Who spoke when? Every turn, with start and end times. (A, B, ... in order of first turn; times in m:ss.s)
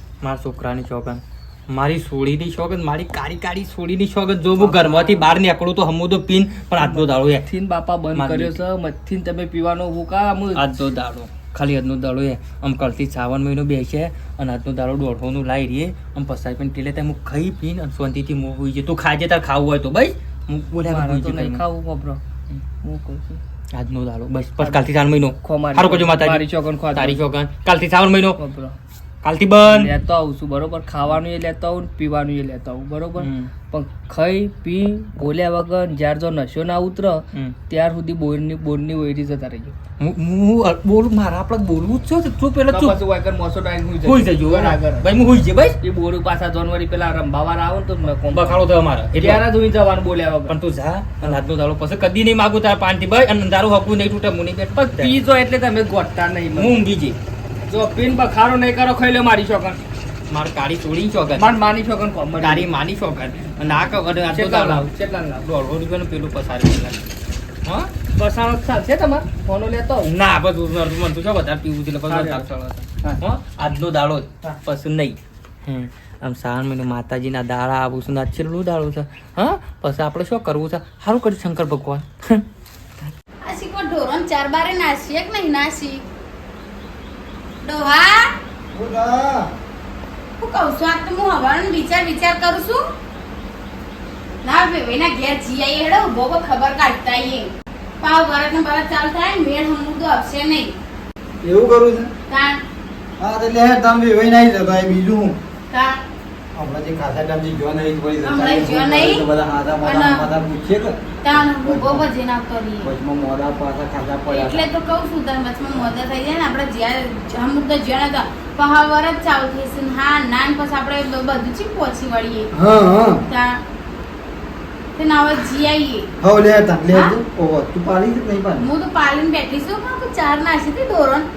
0:00.2-0:07.5 A
0:04.6-0:05.3 B
0:06.8-0:10.6 B
0:08.1-0:08.6 A
0:10.6-0:21.6 A
0:20.8-0:22.2 B
0:22.8-0:23.4 B
0:23.7-0:28.4 A
0:24.6-0:24.8 B
0:25.4-0:27.2 B
0:28.4-0:28.8 B
0:29.2-0:29.9 A
0:29.6-0:39.8 B
0:33.2-0:33.5 A
0:40.0-0:43.0 A
0:42.7-0:45.1 B
0:44.0-0:45.8 A
0:45.8-0:48.6 B
0:48.3-0:49.4 A
0:49.1-0:50.6 B
0:50.5-0:55.1 A
0:54.8-0:56.8 B
0:56.6-0:57.2 A
0:57.7-0:59.8 B
1:00.3-1:01.5 A
1:01.4-1:02.7 B
1:02.4-1:04.9 A
1:04.3-1:05.4 B
1:05.4-1:07.0 A
1:07.6-1:07.9 A
1:08.2-1:10.1 B
1:10.0-1:22.4 A
1:12.1-1:12.5 B
1:23.4-1:26.0 C
1:27.6-1:28.3 C
1:28.7-1:29.5 D
1:30.4-1:32.8 C
1:34.4-1:40.8 C
1:41.4-1:42.1 D
1:42.3-1:42.6 C
1:43.2-1:45.4 D
1:45.7-1:46.0 C
1:46.5-1:52.0 D
1:48.2-1:49.2 C
1:49.8-1:50.2 C
1:51.2-1:52.9 C
1:52.8-1:54.7 D
1:54.3-2:02.5 C
2:02.5-2:03.2 D
2:03.3-2:03.6 C
2:05.0-2:06.1 C
2:06.2-2:08.7 D
2:06.9-2:07.2 C
2:08.6-2:11.3 C